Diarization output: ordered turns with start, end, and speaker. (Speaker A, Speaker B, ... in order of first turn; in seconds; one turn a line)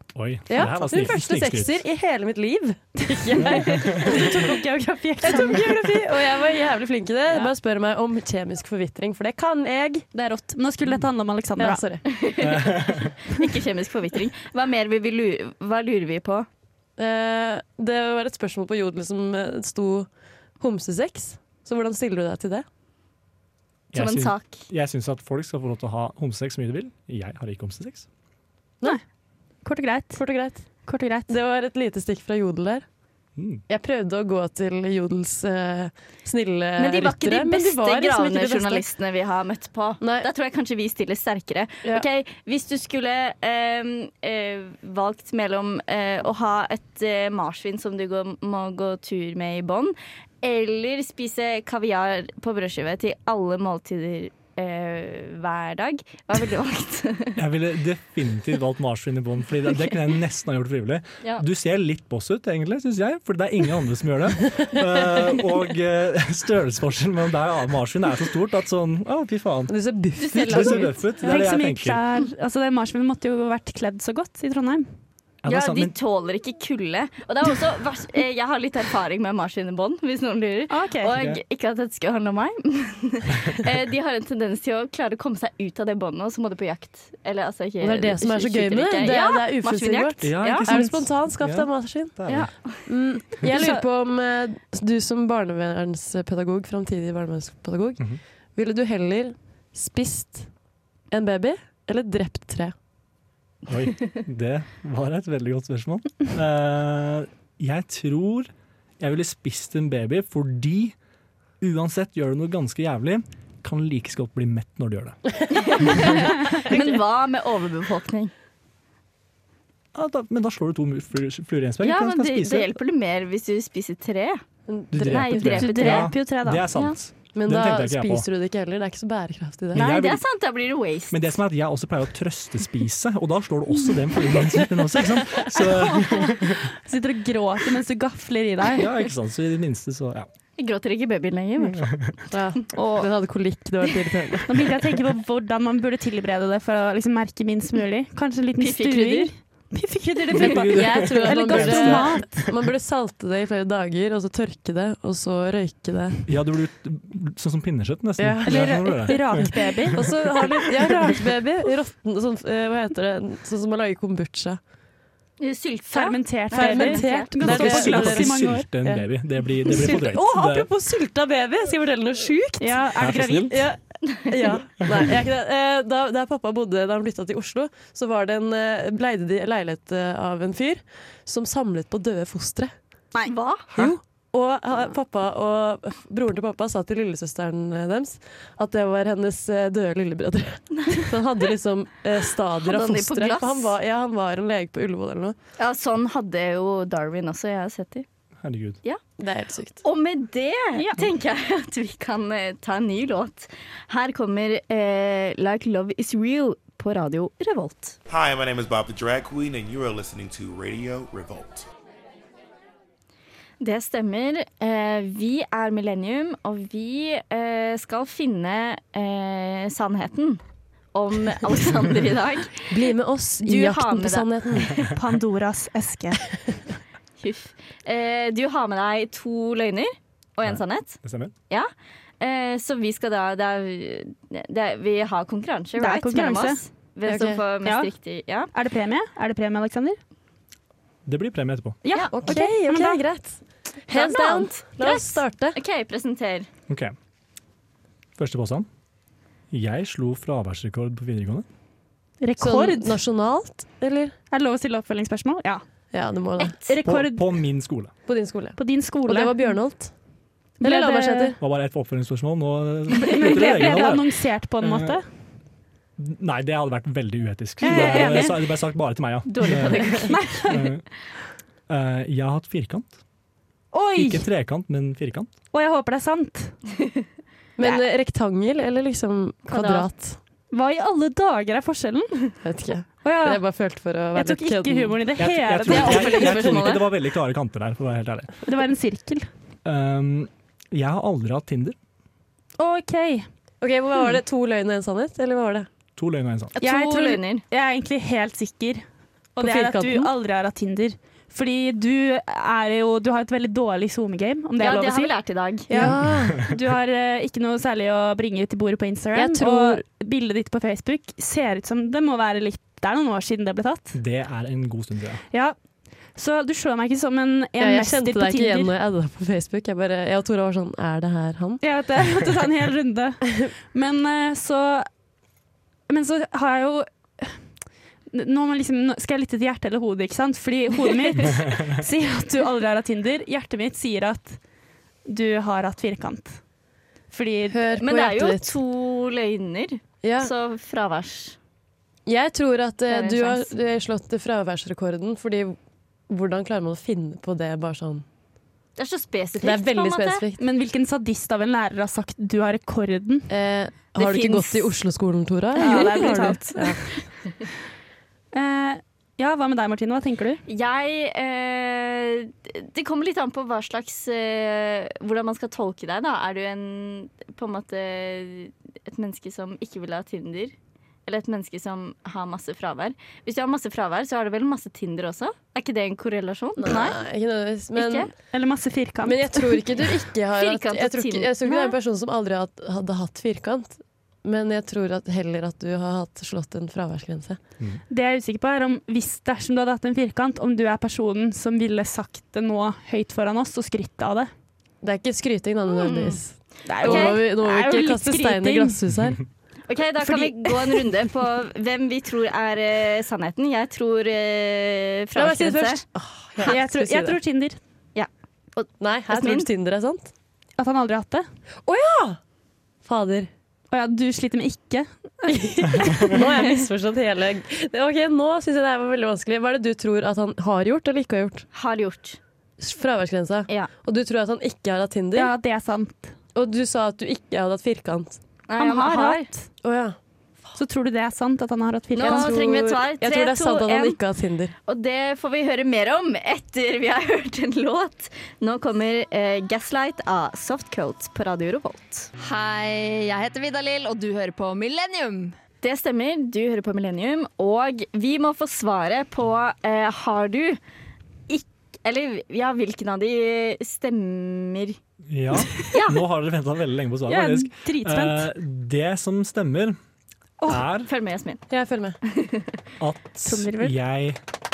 Speaker A: 0.1-1.8
Speaker B: 0.5-10.1
Speaker A: 3.4-4.2
Speaker C: 3.9-6.1
Speaker C: 10.1-11.8
Speaker B: 11.6-12.0
Speaker D: 12.1-16.5
Speaker A: 12.4-13.1
Speaker B: 17.0-22.6
Speaker A: 23.9-28.1
Speaker D: 23.9-24.6
Speaker C: 29.6-30.2
Speaker B: 30.1-30.7
Speaker C: 30.9-31.3
Speaker B: 31.3-32.9
Speaker A: 33.4-33.6
Speaker B: 33.7-38.9
Speaker D: 36.8-57.4
Speaker B: 40.0-40.3
Speaker A: 57.4-69.7
Speaker B: 69.7-70.9
Speaker D: 70.2-71.1
Speaker A: 70.3-72.0
Speaker C: 71.2-74.9
Speaker A: 75.4-75.9
Speaker D: 75.5-90.7
Speaker C: 80.7-81.1
Speaker A: 81.1-81.4
Speaker B: 87.8-92.2
Speaker A: 90.2-92.5
Speaker D: 92.3-92.8
Speaker B: 92.8-100.5
Speaker C: 93.5-93.9
Speaker B: 101.1-102.7
Speaker A: 103.7-111.0
Speaker A: 111.6-115.2
Speaker D: 115.5-118.3
Speaker A: 115.8-116.2
Speaker A: 120.0-122.7
Speaker D: 121.8-124.4
Speaker B: 124.7-125.6
Speaker A: 124.9-128.3
Speaker D: 124.9-126.2
Speaker C: 125.4-126.7
Speaker B: 127.3-129.9
Speaker A: 129.7-130.2
Speaker D: 129.7-131.4
Speaker A: 131.1-136.7
Speaker C: 135.5-138.9
Speaker A: 138.7-140.3
Speaker D: 140.6-141.9
Speaker A: 141.6-142.1
Speaker B: 142.3-144.6
Speaker C: 142.7-143.1
Speaker C: 144.5-152.5
Speaker D: 148.6-149.3
Speaker A: 150.3-152.3
Speaker B: 150.4-156.3
Speaker A: 156.3-159.5
Speaker B: 158.2-164.6
Speaker C: 158.4-160.0
Speaker C: 160.6-161.1
Speaker D: 165.4-167.3
Speaker C: 165.9-168.7
Speaker B: 166.5-169.1
Speaker A: 167.4-170.7
Speaker B: 169.6-172.8
Speaker C: 172.6-173.6
Speaker A: 173.0-173.6
Speaker B: 173.5-182.7
Speaker D: 183.2-183.9
Speaker B: 183.7-195.3
Speaker D: 192.6-193.8
Speaker D: 195.6-198.1
Speaker A: 198.4-198.8
Speaker B: 199.2-199.8
Speaker D: 199.8-208.0
Speaker C: 200.8-201.0
Speaker E: 208.1-211.7
Speaker D: 213.6-220.4
Speaker D: 220.9-222.7
Speaker B: 222.7-224.8
Speaker D: 223.4-224.9
Speaker C: 224.9-226.2
Speaker D: 227.2-231.0
Speaker A: 230.4-231.3
Speaker D: 232.2-238.5
Speaker C: 235.8-236.6
Speaker B: 237.1-237.4
Speaker C: 237.7-237.9
Speaker C: 238.5-240.0
Speaker A: 241.1-241.8
Speaker C: 241.8-243.0
Speaker B: 242.1-245.6
Speaker D: 243.9-246.5
Speaker A: 246.7-246.9
Speaker A: 248.2-248.7
Speaker A: 249.5-251.5
Speaker C: 252.2-253.0
Speaker B: 252.4-254.2
Speaker C: 254.3-255.6
Speaker B: 255.9-256.6
Speaker C: 256.4-257.3
Speaker A: 256.8-257.9
Speaker B: 258.1-259.9
Speaker C: 258.6-259.6
Speaker C: 260.6-261.4
Speaker B: 260.6-261.4
Speaker A: 261.4-265.0
Speaker C: 262.9-265.1
Speaker A: 266.0-270.9
Speaker C: 267.6-268.4
Speaker D: 269.3-270.4
Speaker C: 269.9-270.7
Speaker A: 271.7-273.0
Speaker C: 273.7-274.2
Speaker A: 273.9-275.3
Speaker C: 275.5-276.6
Speaker B: 277.6-280.2
Speaker D: 279.5-279.9
Speaker C: 280.5-282.4
Speaker B: 282.4-285.0
Speaker C: 283.0-283.4
Speaker C: 284.1-286.4
Speaker A: 285.2-288.3
Speaker D: 285.7-286.9
Speaker C: 288.5-289.3
Speaker A: 289.6-291.8
Speaker C: 292.6-293.3
Speaker B: 293.6-295.7
Speaker A: 296.0-296.6
Speaker D: 296.6-297.4
Speaker C: 296.6-298.8
Speaker C: 299.4-305.1
Speaker B: 299.4-300.1
Speaker D: 304.6-305.7
Speaker C: 305.7-314.0
Speaker B: 305.7-306.4
Speaker A: 305.8-306.5
Speaker B: 309.1-309.8
Speaker A: 313.9-315.2
Speaker C: 315.3-315.6
Speaker C: 316.2-318.7
Speaker B: 317.6-321.6
Speaker C: 321.6-324.9
Speaker C: 325.9-327.4
Speaker C: 328.1-334.4
Speaker C: 335.1-336.4
Speaker C: 337.1-337.6
Speaker B: 337.5-338.5
Speaker D: 337.8-341.4
Speaker B: 340.0-340.3
Speaker B: 342.1-345.6
Speaker D: 342.9-343.5
Speaker B: 346.1-348.1
Speaker D: 348.8-350.2
Speaker B: 349.4-350.4
Speaker C: 350.4-353.3
Speaker B: 353.3-356.9
Speaker D: 353.9-354.7
Speaker D: 355.6-356.6
Speaker C: 355.6-356.9
Speaker C: 358.3-360.4
Speaker D: 360.5-370.5
Speaker D: 371.1-377.0
Speaker B: 376.6-378.1
Speaker C: 376.7-376.9
Speaker D: 377.7-378.1
Speaker C: 378.3-379.6
Speaker B: 379.0-387.4
Speaker D: 380.3-381.8
Speaker C: 387.9-394.3
Speaker B: 394.8-399.2
Speaker D: 395.7-396.2
Speaker C: 396.6-398.8
Speaker D: 396.7-397.2
Speaker D: 399.7-405.8
Speaker C: 400.0-400.5
Speaker B: 405.1-407.2
Speaker C: 406.5-407.6
Speaker D: 407.9-409.5
Speaker B: 408.8-410.1
Speaker C: 410.6-411.3
Speaker B: 411.7-412.2
Speaker B: 412.8-413.3
Speaker C: 413.7-416.0
Speaker B: 415.3-421.5
Speaker D: 421.5-422.2
Speaker B: 422.6-425.3
Speaker C: 425.1-426.1
Speaker B: 426.3-428.2
Speaker D: 428.5-429.3
Speaker C: 428.6-429.5
Speaker B: 429.6-430.0
Speaker C: 430.6-432.4
Speaker D: 431.9-434.0
Speaker B: 432.0-434.5
Speaker D: 434.7-442.1
Speaker F: 442.2-445.4
Speaker D: 445.6-450.6
Speaker D: 451.3-454.8
Speaker A: 455.1-459.8
Speaker D: 455.6-456.0
Speaker C: 457.1-458.2
Speaker A: 460.5-460.9
Speaker D: 460.9-461.5
Speaker B: 461.5-462.0
Speaker D: 462.1-462.5
Speaker A: 462.8-464.2
Speaker C: 463.2-463.8